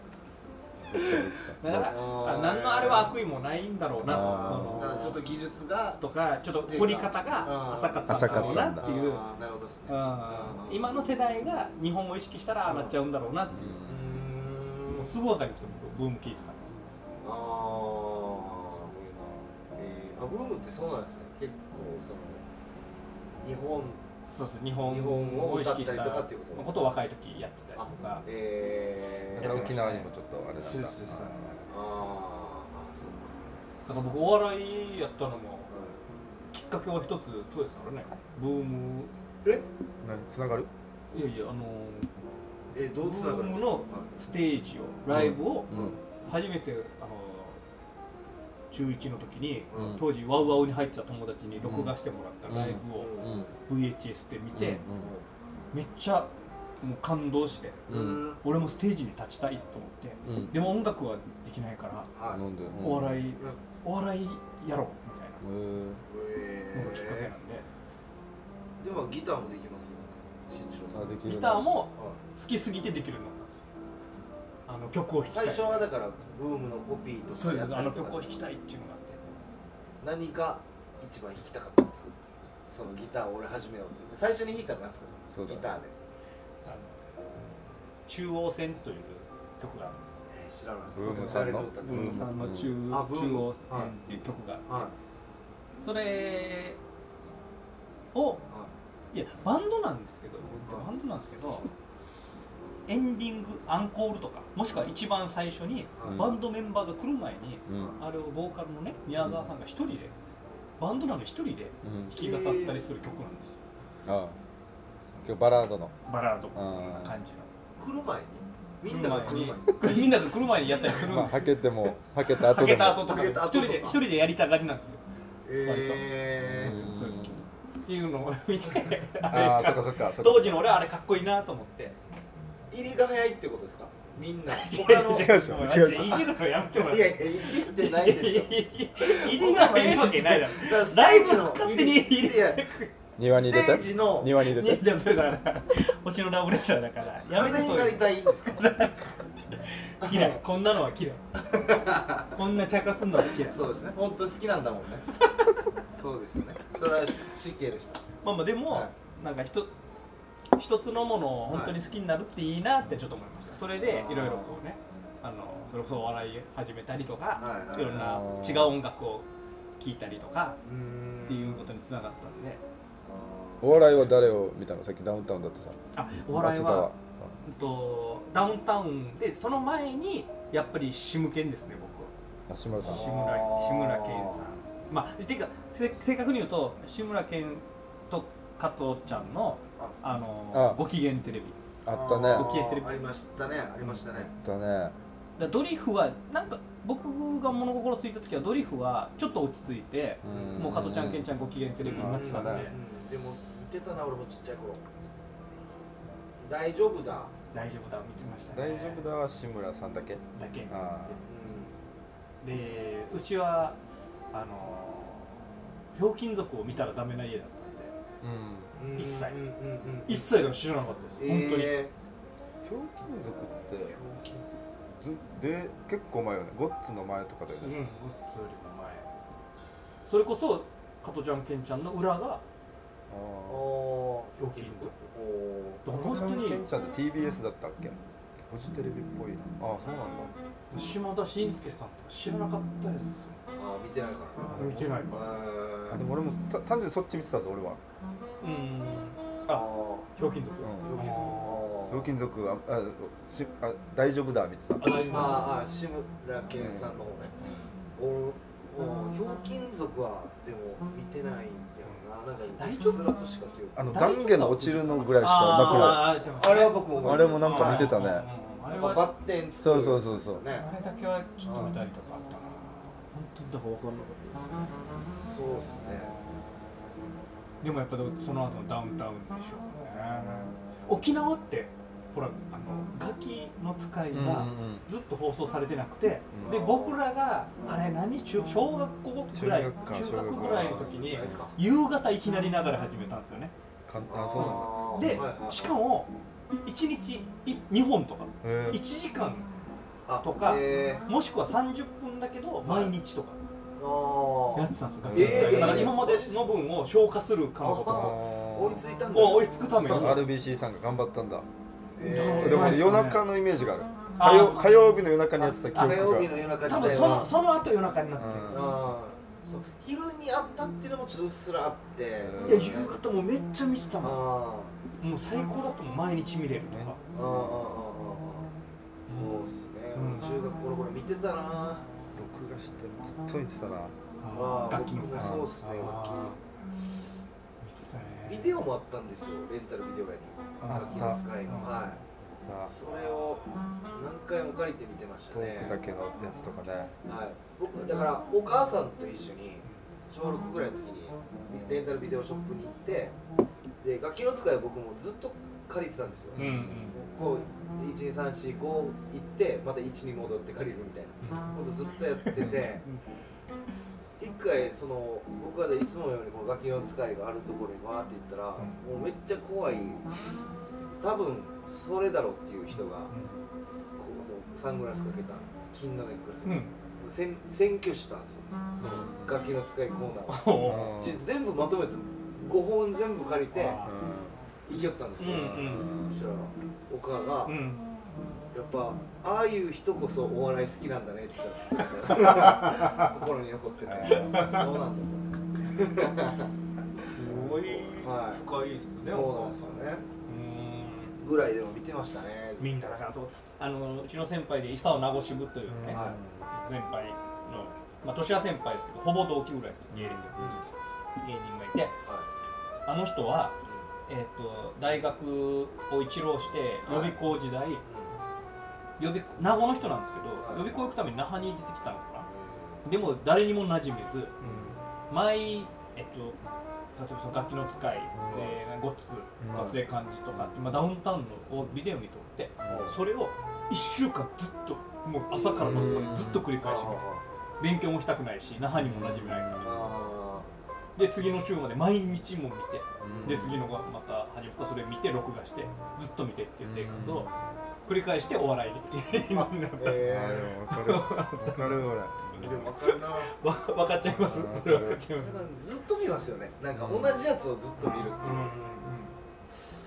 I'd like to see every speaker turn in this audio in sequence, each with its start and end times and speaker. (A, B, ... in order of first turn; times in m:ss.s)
0:00.8-0:02.0 A
0:01.0-0:05.2 B
0:01.8-0:03.2 C
0:04.0-0:04.9 A
0:04.1-0:06.0 C
0:06.0-0:09.2 B
0:06.7-0:10.9 C
0:08.1-0:08.9 A
0:09.9-0:13.6 B
0:12.7-0:12.9 C
0:13.5-0:14.0 A
0:13.9-0:15.1 C
0:15.0-0:16.8 B
0:17.2-0:22.4 C
0:23.4-0:24.0 C
0:24.3-0:28.2 B
0:24.9-0:26.8 C
0:27.8-0:29.8 C
0:29.3-0:31.6 A
0:29.4-0:31.6 B
0:31.7-0:33.6 C
0:33.9-0:35.7 B
0:35.7-0:36.0 C
0:36.5-0:39.1 B
0:40.0-0:40.7 A
0:41.1-0:42.1 B
0:42.7-0:44.1 C
0:43.0-0:47.6 B
0:45.1-0:46.0 A
0:45.7-0:46.0 C
0:48.7-0:53.2 B
0:49.7-0:50.0 C
0:49.7-0:50.0 A
0:51.6-0:51.9 A
0:52.5-0:53.5 A
0:53.0-0:53.5 C
0:53.7-0:54.8 B
0:54.5-0:55.1 A
0:55.0-0:55.2 C
0:55.7-1:02.1 B
0:57.9-0:58.4 C
0:57.9-0:58.2 A
1:00.2-1:00.6 A
1:02.1-1:02.4 C
1:02.3-1:03.2 A
1:02.8-1:05.4 B
1:05.4-1:06.0 A
1:06.1-1:07.3 C
1:06.7-1:07.7 B
1:08.8-1:11.1 C
1:10.9-1:11.7 A
1:11.3-1:13.6 B
1:14.7-1:15.9 B
1:15.3-1:18.4 C
1:17.3-1:19.2 B
1:20.0-1:22.1 C
1:22.7-1:25.9 C
1:25.3-1:25.7 A
1:26.6-1:27.0 B
1:28.1-1:30.2 B
1:30.3-1:33.9 C
1:30.9-1:32.7 A
1:31.0-1:34.7 B
1:34.7-1:34.9 C
1:35.8-1:36.8 B
1:38.1-1:38.4 B
1:39.1-1:41.6 B
1:40.5-1:40.9 C
1:42.9-1:50.1 B
1:46.0-1:46.2 C
1:46.0-1:46.4 A
1:47.7-1:48.0 A
1:50.8-1:53.6 B
1:51.8-1:52.1 A
1:52.1-1:52.8 C
1:54.0-1:54.4 A
1:55.2-1:55.9 A
1:56.1-1:57.5 B
1:56.5-1:57.2 A
1:57.8-2:01.1 C
1:58.9-2:01.6 B
2:00.8-2:03.1 A
2:02.2-2:05.0 B
2:02.9-2:04.0 C
2:05.4-2:06.8 C
2:05.6-2:06.1 B
2:06.5-2:07.4 A
2:06.6-2:12.0 B
2:09.3-2:10.7 A
2:12.7-2:22.7 C
2:14.5-2:22.9 B
2:15.2-2:16.2 A
2:23.2-2:24.9 A
2:23.2-2:24.3 C
2:24.4-2:31.2 B
2:27.3-2:28.7 C
2:30.0-2:30.4 C
2:31.4-2:32.4 C
2:32.3-2:33.6 B
2:33.4-2:35.1 C
2:35.9-2:38.0 C
2:38.2-2:39.7 B
2:40.5-2:49.3 B
2:41.5-2:41.8 C
2:43.8-2:44.5 C
2:47.4-2:48.2 C
2:47.9-2:48.8 A
2:49.8-2:50.6 B
2:50.6-2:51.6 C
2:51.2-2:52.6 B
2:53.0-2:53.9 C
2:53.6-2:57.3 A
2:56.0-2:56.9 B
2:57.4-3:02.1 B
3:02.5-3:03.1 A
3:02.8-3:11.6 B
3:02.8-3:04.4 C
3:10.5-3:10.8 A
3:11.8-3:12.5 A
3:11.9-3:14.3 C
3:12.3-3:13.0 B
3:13.8-3:15.0 A
3:15.4-3:22.8 B
3:20.2-3:21.3 A
3:20.3-3:20.6 C
3:21.8-3:24.8 C
3:21.8-3:22.7 A
3:26.4-3:27.3 C
3:27.5-3:29.0 B
3:28.5-3:31.2 A
3:30.4-3:31.2 B
3:31.3-3:31.7 C
3:32.4-3:33.8 B
3:34.3-3:38.0 B
3:38.2-3:38.7 A
3:38.8-3:40.3 C
3:39.0-3:39.4 B
3:40.1-3:41.8 B
3:41.2-3:41.9 C
3:42.6-3:44.0 A
3:43.9-3:44.6 C
3:45.0-3:47.8 A
3:47.6-3:49.1 B
3:50.0-3:52.4 B
3:53.1-3:53.7 A
3:53.5-3:54.4 C
3:54.4-3:54.9 B
3:54.6-3:55.1 A
3:55.1-3:55.8 C
3:55.8-3:56.6 B
3:55.9-4:00.3 A
4:00.7-4:03.4 B
4:03.6-4:06.0 C
4:04.5-4:05.0 A
4:04.6-4:05.3 B
4:05.9-4:07.8 A
4:08.4-4:11.7 B
4:09.5-4:10.1 C
4:10.6-4:11.0 A
4:10.8-4:12.1 C
4:11.9-4:15.4 A
4:14.8-4:15.5 B
4:15.1-4:17.4 C
4:16.6-4:17.0 A
4:18.0-4:24.2 C
4:22.6-4:23.1 B
4:23.8-4:26.2 A
4:23.9-4:29.1 B
4:25.4-4:28.0 C
4:27.0-4:28.3 A
4:28.7-4:30.7 C
4:29.6-4:30.4 A
4:30.6-4:34.6 B
4:35.2-4:36.2 C
4:37.6-4:53.5 B
4:44.1-4:44.8 A
4:46.3-4:46.6 A
4:46.4-4:47.0 C
4:49.3-4:51.5 A
4:50.4-4:51.6 C
4:53.9-4:55.2 A
4:54.1-4:55.8 C
4:54.4-4:56.1 B
4:56.6-4:59.5 B
4:58.4-4:58.8 A
5:00.1-5:01.0 C
5:00.2-5:03.4 B
5:02.6-5:03.0 C
5:03.8-5:06.6 C
5:04.6-5:08.2 B
5:05.0-5:06.0 A
5:07.6-5:10.2 C
5:07.9-5:08.8 A
5:09.1-5:10.2 B
5:09.9-5:11.5 A
5:12.0-5:13.0 C
5:12.0-5:13.3 B
5:12.4-5:17.2 A
5:14.2-5:14.7 B
5:15.4-5:17.4 C
5:16.6-5:18.7 B
5:18.2-5:18.7 A
5:18.5-5:23.0 C
5:22.2-5:22.8 A
5:22.4-5:24.2 B
5:24.0-5:24.7 C
5:25.0-5:27.0 B
5:26.7-5:27.7 A
5:27.1-5:28.5 C
5:29.1-5:30.3 B
5:29.1-5:31.9 C
5:32.1-5:34.0 A
5:34.2-5:37.0 B
5:34.3-5:36.4 C
5:35.2-5:35.5 A
5:37.6-5:38.6 B
5:38.3-5:42.0 C
5:40.6-5:42.0 B
5:40.7-5:41.2 A
5:42.4-5:42.7 A
5:42.6-5:45.8 C
5:45.3-5:46.9 A
5:47.0-5:53.2 C
5:53.8-6:02.8 C
5:56.4-5:56.6 A
5:56.4-5:57.0 B
6:01.2-6:01.5 B
6:02.2-6:03.0 B
6:04.2-6:10.1 C
6:11.0-6:13.1 C
6:13.1-6:13.4 B
6:14.0-6:23.8 C
6:16.4-6:16.7 B
6:18.8-6:19.4 A
6:20.3-6:21.0 B
6:20.6-6:21.2 A
6:23.5-6:24.0 B
6:23.8-6:24.3 A
6:24.7-6:27.6 C
6:25.2-6:25.9 B
6:25.3-6:26.1 A
6:27.4-6:27.8 B
6:28.5-6:36.5 C
6:33.8-6:34.6 A
6:34.3-6:34.6 B
6:37.0-6:39.7 B
6:37.2-6:37.7 A
6:37.4-6:38.4 C
6:39.0-6:40.0 C
6:40.3-6:41.2 B
6:41.2-6:43.0 C
6:42.6-6:50.4 B
6:45.7-6:46.5 A
6:45.9-6:46.2 C
6:49.9-6:50.3 A
6:50.4-6:50.6 C
6:51.2-6:52.0 B
6:52.9-6:57.8 B
6:56.8-6:57.2 C
6:57.8-6:58.1 C
6:59.0-7:02.3 B
7:00.4-7:00.7 C
7:02.3-7:02.8 C
7:02.8-7:06.4 B
7:04.4-7:04.7 A
7:07.0-7:17.0 B
7:08.2-7:08.5 A
7:09.4-7:09.8 A
7:12.6-7:12.9 A
7:12.7-7:13.0 C
7:15.3-7:17.2 C
7:15.6-7:16.5 A
7:17.6-7:19.8 B
7:18.8-7:19.9 A
7:19.6-7:20.5 C
7:21.0-7:27.3 B
7:23.0-7:23.6 A
7:26.6-7:27.3 A
7:27.9-7:31.8 B
7:29.3-7:30.6 C
7:30.0-7:32.7 A
7:32.4-7:33.3 C
7:32.8-7:35.4 B
7:34.0-7:35.0 A
7:35.2-7:38.6 C
7:36.7-7:37.2 A
7:37.8-7:39.2 B